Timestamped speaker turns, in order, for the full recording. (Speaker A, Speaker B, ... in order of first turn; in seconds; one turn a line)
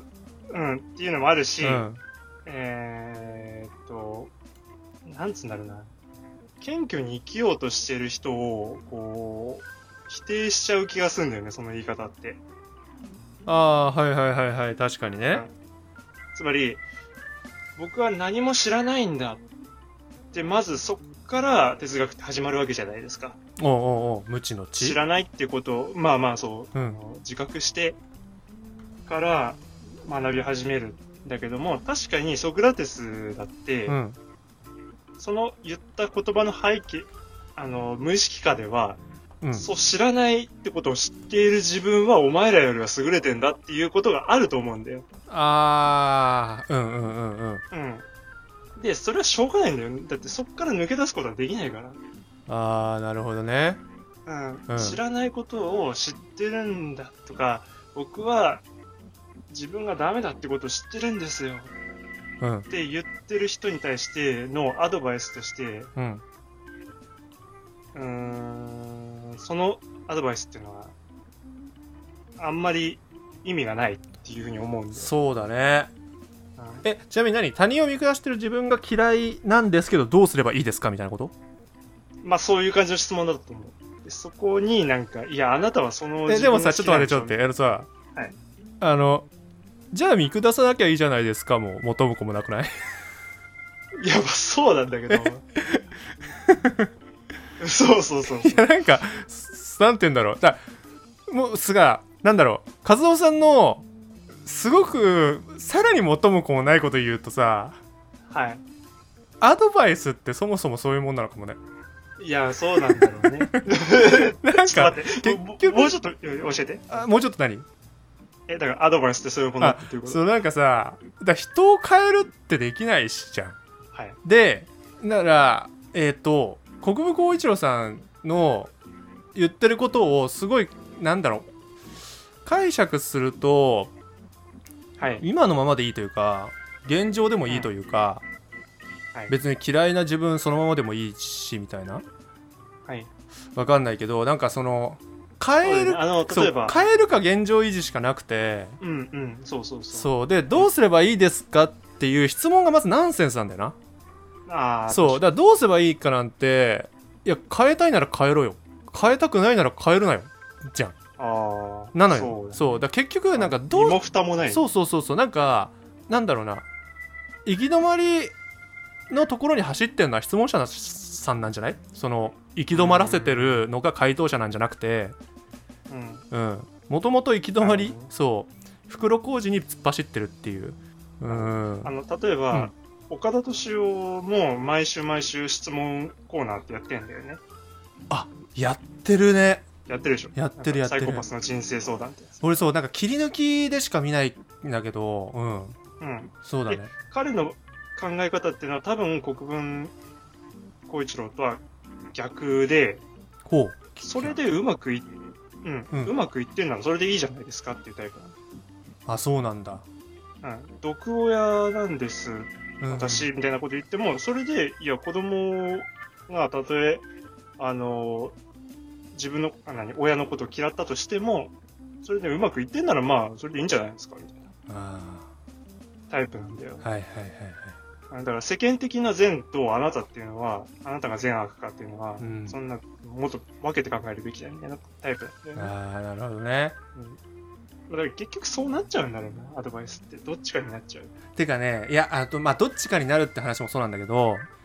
Speaker A: 0.5-1.9
Speaker B: 1.6-2.0
Speaker A: 2.5-4.3
Speaker A: 5.0-5.9
Speaker A: 6.6-12.4
Speaker B: 13.4-15.5
Speaker A: 16.3-16.8
Speaker A: 17.8-19.4
Speaker A: 20.3-23.4
Speaker B: 23.6-25.0
Speaker A: 24.7-28.0
Speaker B: 26.7-27.0
Speaker A: 29.1-34.0
Speaker B: 33.9-34.2
Speaker A: 35.2-39.0
Speaker B: 39.4-39.7
Speaker A: 39.5-45.0
Speaker B: 45.3-47.6
Speaker A: 47.7-48.0
Speaker A: 48.8-52.0
Speaker B: 52.5-53.8
Speaker A: 54.2-58.6
Speaker B: 54.7-55.0
Speaker A: 59.5-61.7
Speaker B: 62.4-62.7
Speaker A: 62.7-65.9
Speaker B: 66.0-66.2
Speaker A: 67.9-70.9
Speaker A: 72.4-75.1
Speaker B: 74.9-75.9
Speaker A: 76.6-76.8
Speaker B: 76.8-81.3
Speaker A: 82.2-87.3
Speaker B: 86.3-87.9
Speaker B: 88.8-89.3
Speaker B: 89.9-92.7
Speaker A: 94.0-95.4
Speaker B: 95.1-95.8
Speaker B: 96.5-96.9
Speaker A: 97.6-98.7
Speaker B: 98.3-100.6
Speaker B: 101.3-103.8
Speaker B: 104.4-107.8
Speaker A: 108.3-108.6
Speaker B: 109.4-111.6
Speaker A: 112.2-117.1
Speaker B: 113.0-116.0
Speaker B: 116.9-117.7
Speaker A: 118.5-120.2
Speaker B: 119.6-123.6
Speaker A: 123.9-124.2
Speaker B: 124.2-128.7
Speaker B: 129.3-131.5
Speaker B: 132.4-133.9
Speaker A: 135.0-135.2
Speaker B: 135.2-138.2
Speaker B: 139.3-142.0
Speaker B: 143.5-148.8
Speaker A: 145.6-146.8
Speaker A: 148.8-150.7
Speaker B: 149.9-153.8
Speaker A: 154.5-155.2
Speaker B: 154.9-160.9
Speaker A: 161.2-162.6
Speaker B: 161.9-166.6
Speaker A: 163.3-164.6
Speaker B: 167.4-168.3
Speaker B: 169.1-175.2
Speaker A: 172.7-173.6
Speaker A: 175.9-176.3
Speaker B: 176.3-181.9
Speaker A: 177.6-178.1
Speaker A: 181.2-187.4
Speaker B: 188.1-189.7
Speaker A: 189.9-192.4
Speaker B: 190.3-191.3
Speaker B: 192.4-195.8
Speaker A: 196.0-199.9
Speaker B: 196.4-196.9
Speaker A: 200.9-203.0
Speaker B: 203.4-204.4
Speaker A: 204.0-205.1
Speaker A: 205.6-208.3
Speaker B: 209.1-209.8
Speaker A: 210.4-217.1
Speaker B: 212.8-213.3
Speaker A: 217.6-218.4
Speaker A: 219.1-224.5
Speaker B: 224.7-225.3
Speaker A: 226.1-226.8
Speaker B: 226.8-227.8
Speaker A: 228.1-235.7
Speaker B: 232.2-232.6
Speaker B: 235.6-236.8
Speaker A: 237.9-241.1
Speaker B: 241.3-244.5